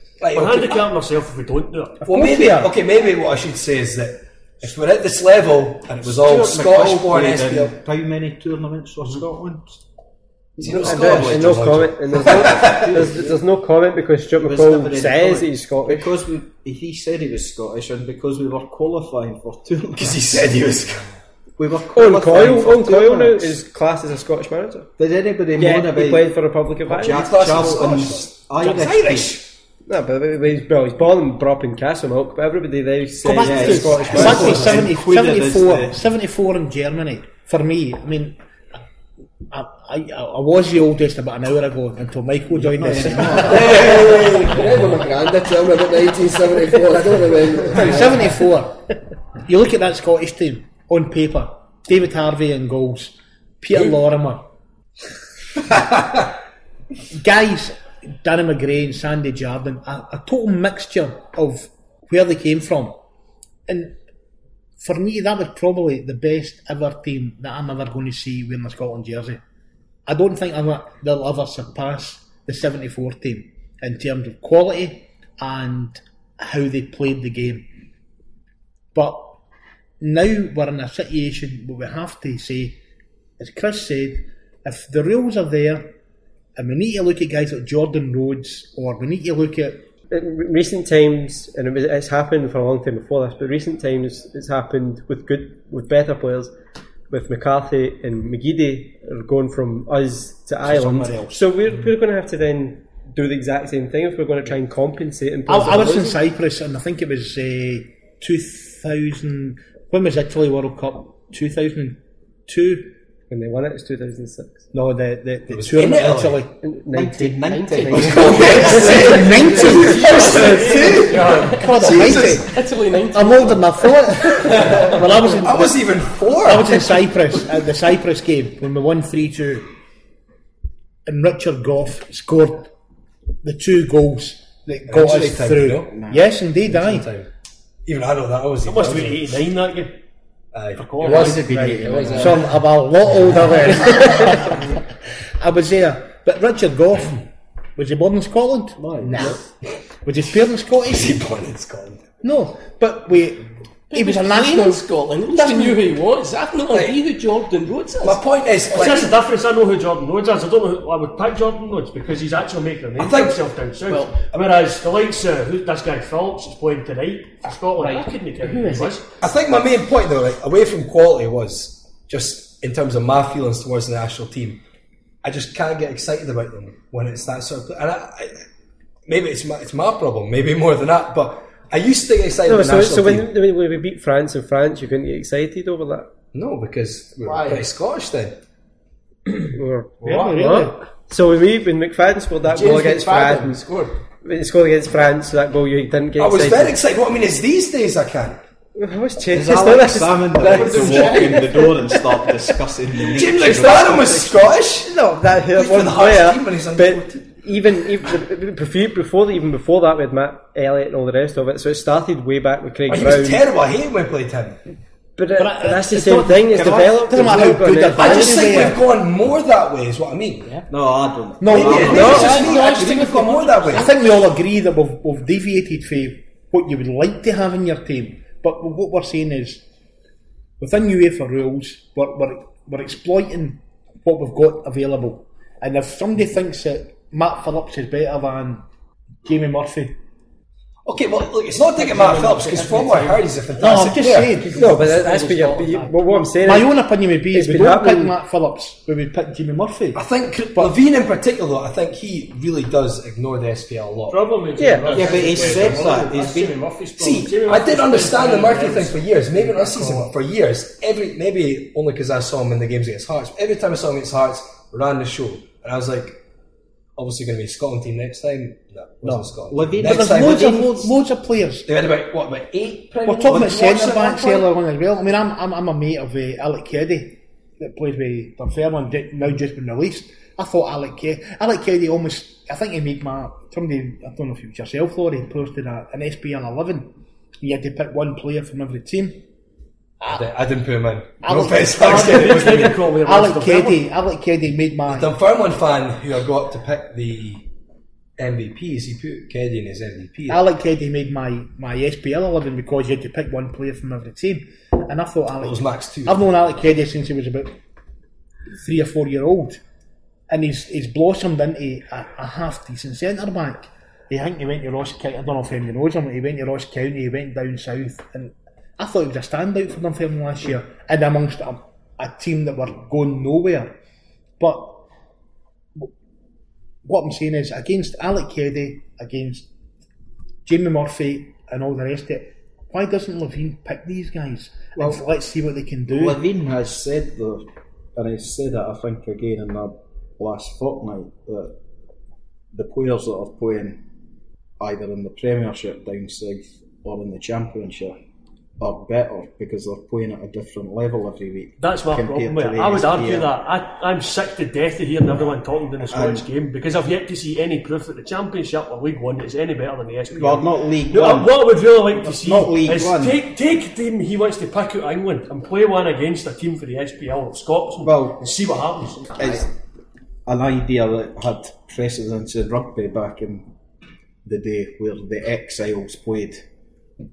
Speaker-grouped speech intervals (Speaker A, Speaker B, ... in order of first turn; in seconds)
Speaker A: 0.2-0.9, 2.0-7.8, 10.6-12.9, 20.0-21.0, 27.0-29.5, 33.8-34.9, 43.4-44.9, 46.8-48.2, 115.5-116.4, 117.9-122.6, 124.6-124.9, 125.4-127.1, 134.9-135.9, 136.6-137.3, 137.9-139.4, 140.5-142.4, 150.9-152.1, 156.7-157.0, 158.0-159.2, 163.0-163.4, 169.2-174.6, 175.2-178.4, 179.1-183.3, 186.3-188.4, 196.2-198.4, 200.5-201.4, 203.1-204.9, 205.5-207.3, 212.9-214.6, 217.9-220.6, 221.5-223.9, 240.9-245.8, 249.9-254.3, 254.9-255.9, 257.0-266.2, 267.0-270.6, 271.7-274.5, 290.1-292.9, 294.9-297.5, 298.2-300.4, 305.4-306.3
Speaker B: 0.3-2.0, 119.5-121.8, 138.6-140.0, 140.8-141.8, 158.7-169.0, 242.2-243.1, 254.1-260.1, 291.6-293.8, 351.6-369.5
Speaker C: 2.0-2.7, 28.6-28.9, 33.2-38.4, 39.5-44.3, 47.7-48.9, 49.4-54.5, 57.1-63.0, 63.7-64.0, 64.8-69.4, 70.0-77.7, 78.9-79.4, 80.0-82.8, 83.4-85.9, 86.5-89.9, 105.5-112.9, 114.7-116.5, 118.7-120.7, 121.5-129.7, 131.0-132.7, 133.4-137.1, 142.1-144.8, 145.4-149.5, 150.0-151.2, 152.2-155.8, 190.0-190.8, 215.4-218.8, 221.4-222.6, 223.7-229.6, 230.6-238.6, 239.2-240.0, 243.6-245.3, 246.2-250.0, 269.8-271.7, 273.1-289.2, 291.2-295.1, 300.3-307.6, 308.5-309.6, 310.3-323.7, 324.4-324.9, 326.8-329.5, 330.4-336.2
Speaker D: 6.2-9.8, 10.6-13.4, 14.4-20.9, 21.6-23.6, 25.0-29.4, 33.4-36.0, 42.5-44.4, 100.6-101.4, 116.9-119.9, 135.9-136.3, 141.0-142.5, 148.8-149.4, 199.3-204.2, 220.7-222.6, 254.9-256.6, 269.5-270.9, 334.8-335.0, 335.9-341.6, 342.5-343.9, 344.6-348.0, 348.6-353.3, 355.9-356.2, 360.1-363.2, 367.8-368.1, 369.1-369.5, 370.3-373.5, 374.2-376.5
Speaker E: 10.8-16.1, 21.9-24.9, 25.5-27.2, 29.9-34.5, 90.1-96.5, 97.1-106.2, 113.3-114.6, 116.6-119.2, 120.2-120.7, 121.8-123.6, 124.5-124.9, 143.3-144.5, 182.4-186.1, 189.5-193.7, 194.2-196.8, 198.8-202.0, 203.4-213.4, 215.2-218.5, 221.9-222.3, 244.5-246.7, 247.3-248.1, 254.6-254.9
Speaker F: 44.4-48.4
Speaker G: 153.9-158.2, 163.9-164.2, 167.7-169.0, 187.2-187.7, 192.5-193.9, 200.6-201.3, 221.7-224.0